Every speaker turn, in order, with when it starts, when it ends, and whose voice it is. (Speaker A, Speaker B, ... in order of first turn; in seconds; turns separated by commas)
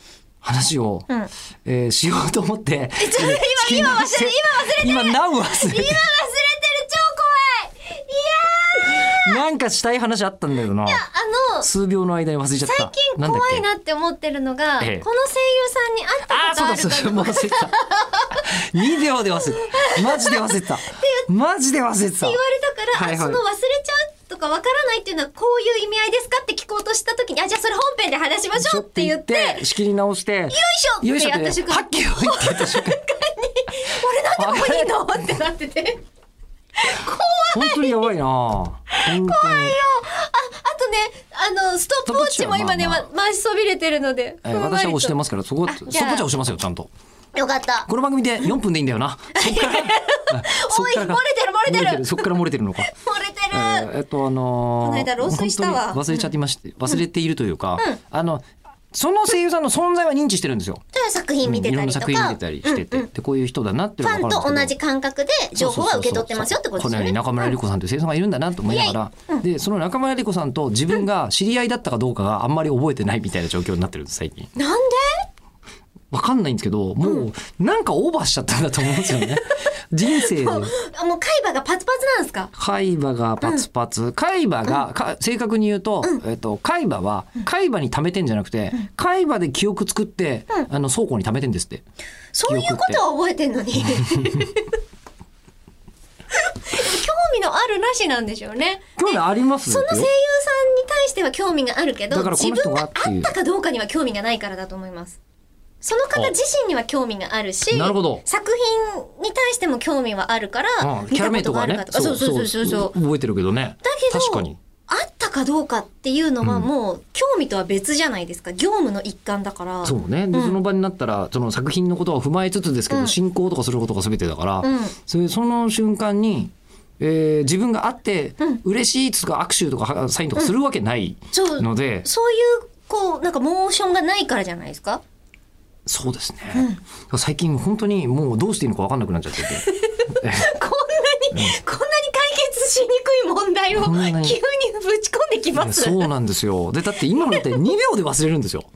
Speaker A: 0.4-1.1, Speaker A: 1.6-6.0, Speaker B: 3.0-9.4, Speaker A: 8.9-11.0, Speaker B: 10.8-11.7, Speaker A: 11.6-13.7, Speaker B: 12.6-18.5, Speaker A: 14.8-15.1, Speaker A: 16.3-17.7, Speaker A: 18.3-22.4, Speaker B: 19.4-21.2, Speaker B: 22.2-29.7, Speaker A: 22.9-23.4, Speaker A: 28.5-33.0, Speaker B: 30.5-36.0, Speaker A: 34.4-35.1, Speaker B: 36.8-38.1, Speaker A: 37.5-39.8, Speaker B: 39.0-46.2, Speaker A: 42.0-43.0, Speaker A: 44.4-46.9, Speaker B: 47.3-47.9, Speaker A: 47.9-52.9, Speaker B: 49.3-52.3, Speaker B: 52.8-53.9, Speaker A: 53.5-60.8, Speaker B: 54.8-56.3, Speaker B: 60.9-63.1, Speaker A: 61.4-64.7, Speaker B: 64.0-67.6, Speaker A: 65.5-74.5, Speaker B: 68.7-69.4, Speaker B: 74.5-75.2, Speaker A: 76.1-80.7, Speaker B: 78.9-79.5, Speaker B: 80.1-82.5, Speaker A: 82.5-91.8, Speaker B: 92.3-94.7, Speaker A: 92.5-93.0, Speaker B: 96.3-105.2, Speaker A: 99.0-100.1, Speaker A: 102.1-103.3, Speaker B: 105.8-112.9, Speaker A: 107.7-108.2, Speaker A: 110.8-114.6, Speaker B: 113.8-120.6, Speaker A: 116.4-116.7, Speaker A: 119.8-132.1, Speaker B: 122.9-123.2, Speaker B: 124.6-124.9, Speaker B: 131.3-135.0, Speaker A: 135.8-140.4, Speaker B: 136.5-136.8, Speaker B: 139.5-146.1, Speaker A: 141.3-141.6, Speaker A: 143.7-144.4, Speaker A: 145.5-148.7, Speaker B: 147.2-147.7